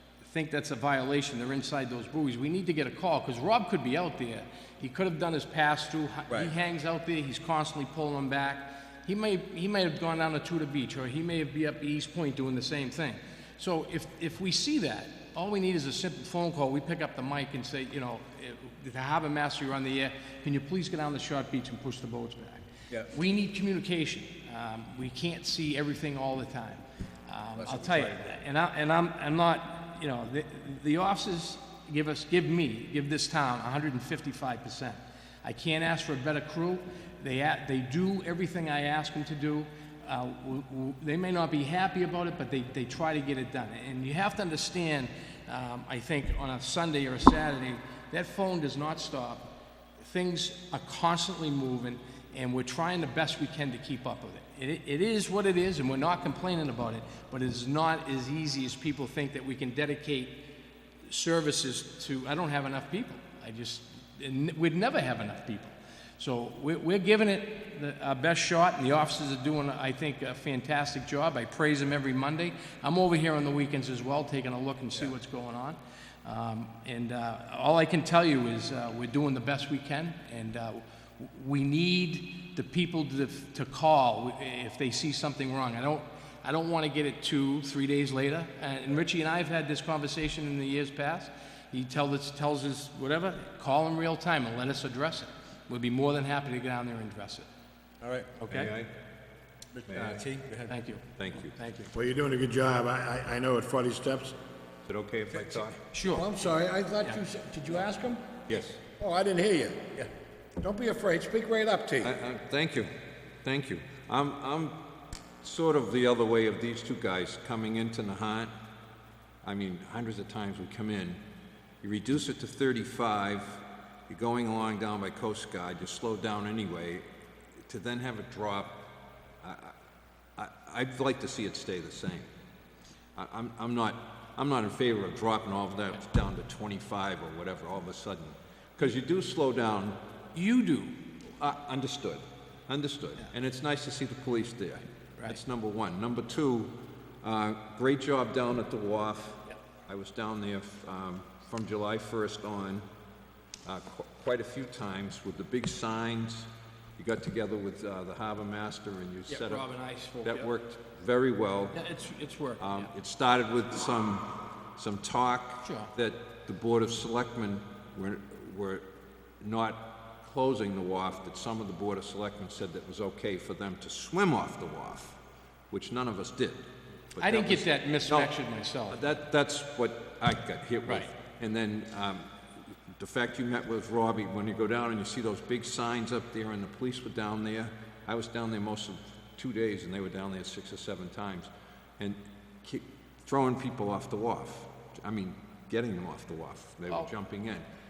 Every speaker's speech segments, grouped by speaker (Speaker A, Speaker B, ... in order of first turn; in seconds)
Speaker A: 0.2-60.4, 61.1-97.5, 98.4-98.7, 100.7-101.9, 105.9-106.3, 140.3-141.0, 159.3-160.5, 161.7-162.9, 165.6-165.9, 177.2-179.1
Speaker B: 27.6-28.2, 98.0-98.4, 99.8-100.7
Speaker C: 98.5-98.9, 99.9-100.2, 101.2-101.5, 104.9-105.8, 108.5-108.8, 112.0-112.9, 113.4-114.8, 115.4-118.5, 119.4-121.2, 121.8-127.1, 127.7-128.8, 129.4-129.7, 130.4-132.3, 133.2-140.0, 141.4-152.9, 153.7-159.7, 160.2-161.8, 162.6-168.8, 169.4-175.2, 175.7-178.3, 178.9-182.3, 183.0-197.7
Speaker D: 101.9-104.4, 106.1-108.3, 109.0-110.0, 110.6-112.2